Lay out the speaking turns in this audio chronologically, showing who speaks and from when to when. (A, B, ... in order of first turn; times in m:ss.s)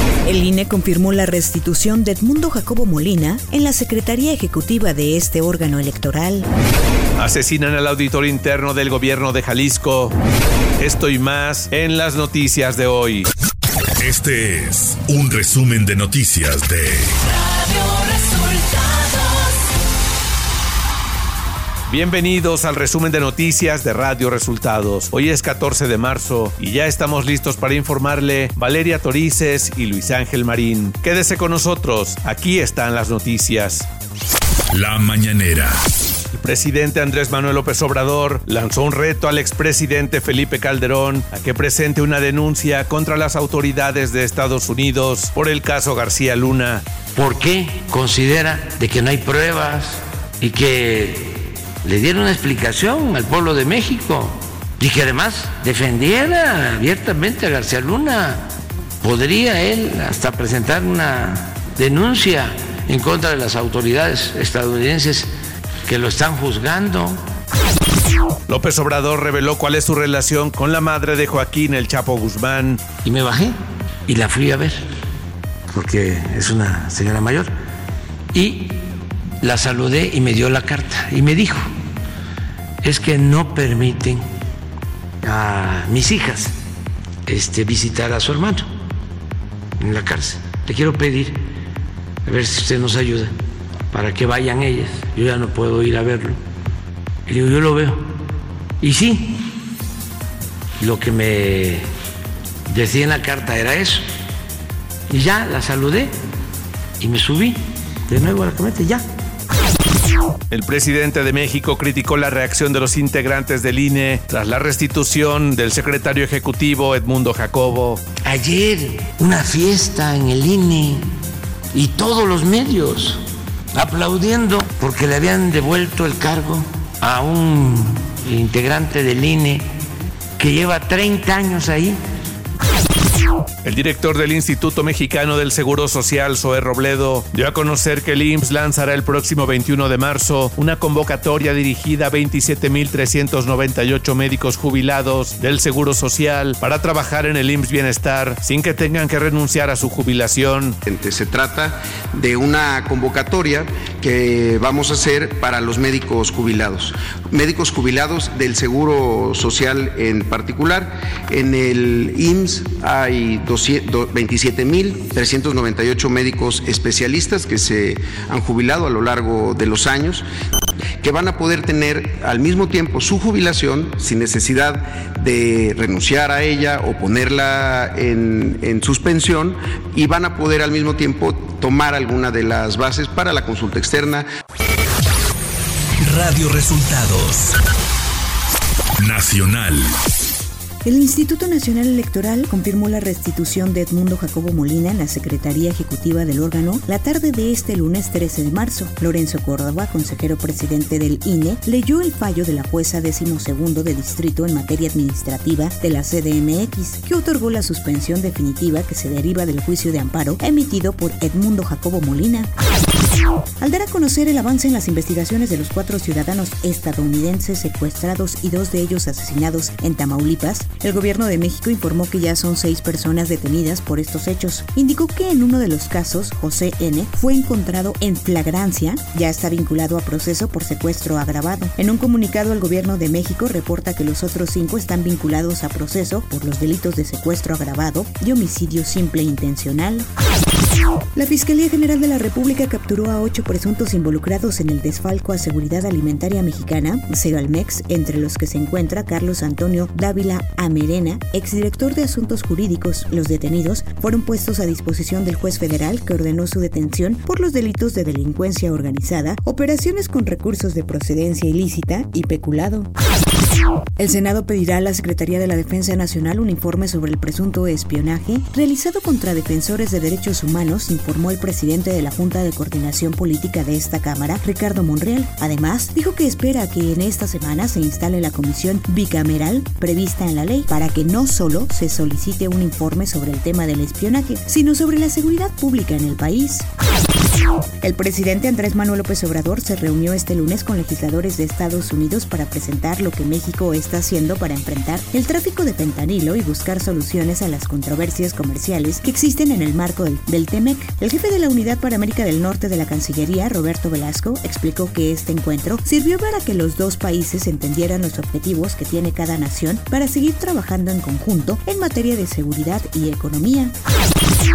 0:00.2-0:06.5 A
0:07.2-0:10.1 B
0:10.8-0:13.3 B
0:14.0-0:17.1 C
0:21.9-0:33.8 B
0:34.7-0:35.8 C
0:36.3-0:46.8 B
0:47.2-0:58.5 D
0:59.0-1:05.3 D
1:05.9-1:07.2 D
1:08.5-1:12.8 B
1:13.0-1:13.5 D
1:14.1-1:14.8 D
1:15.7-1:17.5 D
1:18.3-1:18.8 D
1:19.4-1:21.7 D
1:22.8-1:24.2 D
1:25.2-1:26.5 D
1:27.3-1:28.6 D
1:29.8-1:31.4 D
1:32.2-1:33.3 D
1:33.9-1:36.4 D
1:37.3-1:38.1 D
1:38.8-1:39.4 D
1:40.8-1:41.9 D
1:42.7-1:44.0 D
1:45.1-1:46.1 D
1:47.0-1:49.0 D
1:50.5-1:58.0 B
1:58.2-2:01.1 D
2:01.7-2:03.2 D
2:03.7-2:09.6 D
2:10.4-2:12.0 D
2:13.6-2:30.8 B
2:30.8-2:50.2 E
2:51.0-3:04.2 E
3:06.0-3:07.5 B
3:09.0-3:09.9 C
3:10.8-3:32.5 A
3:33.6-4:00.1 A
4:01.1-4:22.9 A
4:24.0-4:46.7 A
4:47.8-5:13.7 A